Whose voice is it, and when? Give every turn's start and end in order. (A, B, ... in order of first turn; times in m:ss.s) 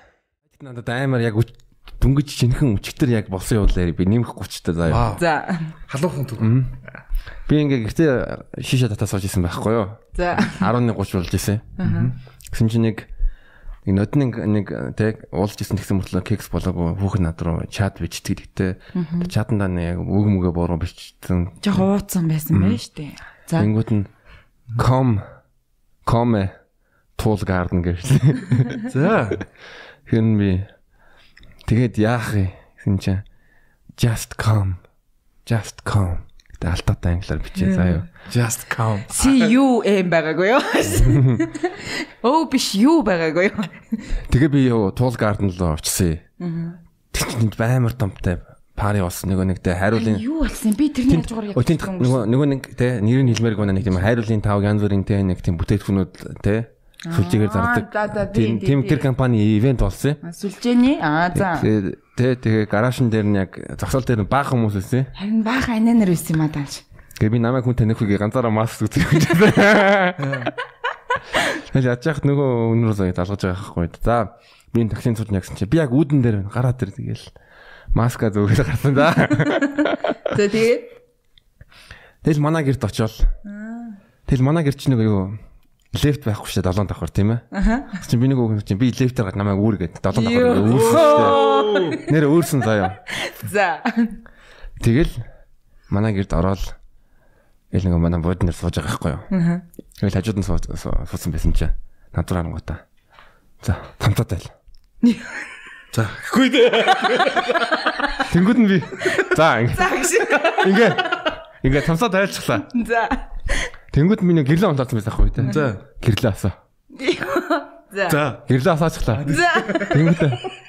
0:00.5-0:05.2 A
0:04.9-0:05.2 B
0:05.2-0:05.8 C
0:05.9-0:06.5 B
0:06.4-0:06.8 A
0:07.5-0:11.7 A
0:10.2-0:10.7 C
0:11.8-0:12.1 C
0:11.8-0:12.1 B
0:12.5-0:13.1 A
0:13.9-0:21.6 A
0:18.9-0:19.3 C
0:21.6-0:23.7 C
0:22.5-0:22.8 A
0:23.6-0:24.1 A
0:24.8-0:25.2 A
0:26.0-0:26.5 A
0:27.2-0:28.8 A
0:28.9-0:29.4 B
0:30.1-0:30.7 A
0:31.7-0:33.2 A
0:34.0-0:34.8 A
0:35.5-0:38.1 A
0:37.6-0:38.0 C
0:38.3-0:39.2 B
0:39.1-0:44.1 C
0:41.1-0:41.4 A
0:44.3-0:46.2 A
0:46.4-0:46.8 C
0:47.1-0:50.3 A
0:49.9-0:52.3 C
0:51.1-1:00.2 A
0:57.1-0:59.1 C
1:00.2-1:01.7 C
1:01.4-1:05.1 A
1:05.2-1:06.8 C
1:07.2-1:10.4 A
1:10.2-1:10.5 B
1:11.6-1:17.3 A
1:17.9-1:20.0 A
1:20.3-1:20.9 C
1:22.2-1:23.3 A
1:23.5-1:24.0 C
1:24.3-1:25.4 A
1:25.9-1:31.4 A
1:27.5-1:27.9 C
1:30.1-1:32.1 C
1:30.7-1:32.0 B
1:31.9-1:33.0 A
1:33.1-1:34.2 C
1:34.8-1:35.2 A
1:35.9-1:36.8 A
1:37.7-1:39.3 A
1:39.3-1:39.6 C
1:40.0-1:42.8 A
1:43.6-1:44.5 A
1:45.0-1:45.4 C
1:45.9-1:48.0 B
1:47.9-1:48.2 C
1:48.2-1:52.7 A
1:49.1-1:51.0 C
1:52.7-1:53.7 C
1:53.9-1:56.5 A
1:55.4-1:55.8 B
1:56.9-1:58.2 C
1:58.1-1:58.4 B
1:58.4-2:00.5 A
1:59.2-2:00.0 B
1:59.3-2:00.0 C